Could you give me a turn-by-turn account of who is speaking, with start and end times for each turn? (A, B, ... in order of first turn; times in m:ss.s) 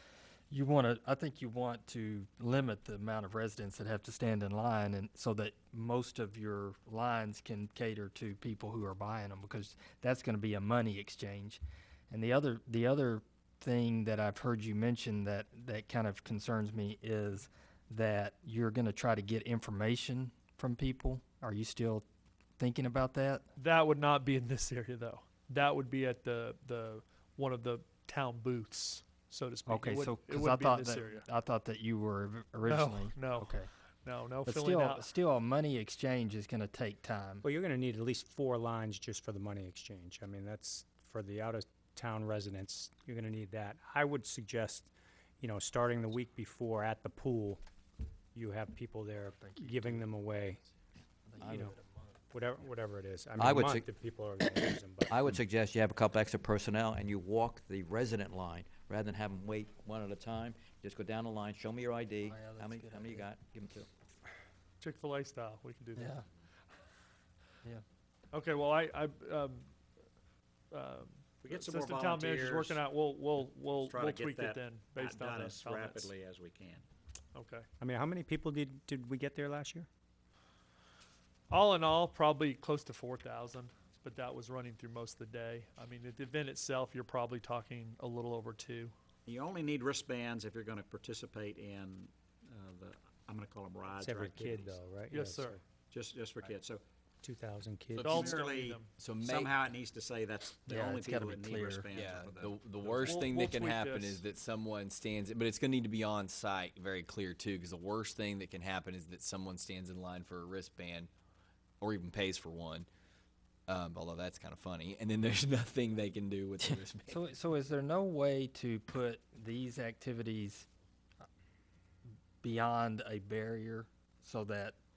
0:00.5-0:22.0 A
0:22.6-0:23.5 A
0:23.6-0:31.2 B
0:29.7-0:33.7 A
0:32.7-0:35.1 B
0:34.4-0:37.4 A
0:37.4-0:47.6 C
0:48.3-0:50.6 C
0:49.4-0:50.0 A
0:51.3-0:52.2 A
0:51.4-0:51.8 C
0:52.3-0:55.4 C
0:53.4-0:53.9 D
0:55.1-1:03.9 D
1:02.2-1:03.3 A
1:04.8-1:06.2 B
1:06.0-1:06.2 A
1:08.3-1:09.7 B
1:10.7-1:16.1 B
1:11.4-1:12.8 E
1:13.7-1:16.8 E
1:17.3-1:17.7 B
1:17.8-1:19.9 C
1:21.5-1:28.9 B
1:29.3-1:34.8 E
1:34.0-1:35.6 C
1:35.1-1:35.6 B
1:35.9-1:36.8 E
1:37.2-1:38.3 C
1:38.0-1:38.9 B
1:38.1-1:43.1 E
1:39.0-1:39.5 F
1:40.7-1:41.9 A
1:41.9-1:51.1 F
1:43.0-1:44.2 B
1:51.8-1:52.9 F
1:53.7-1:57.2 F
1:57.1-2:00.7 A
2:02.4-2:04.8 A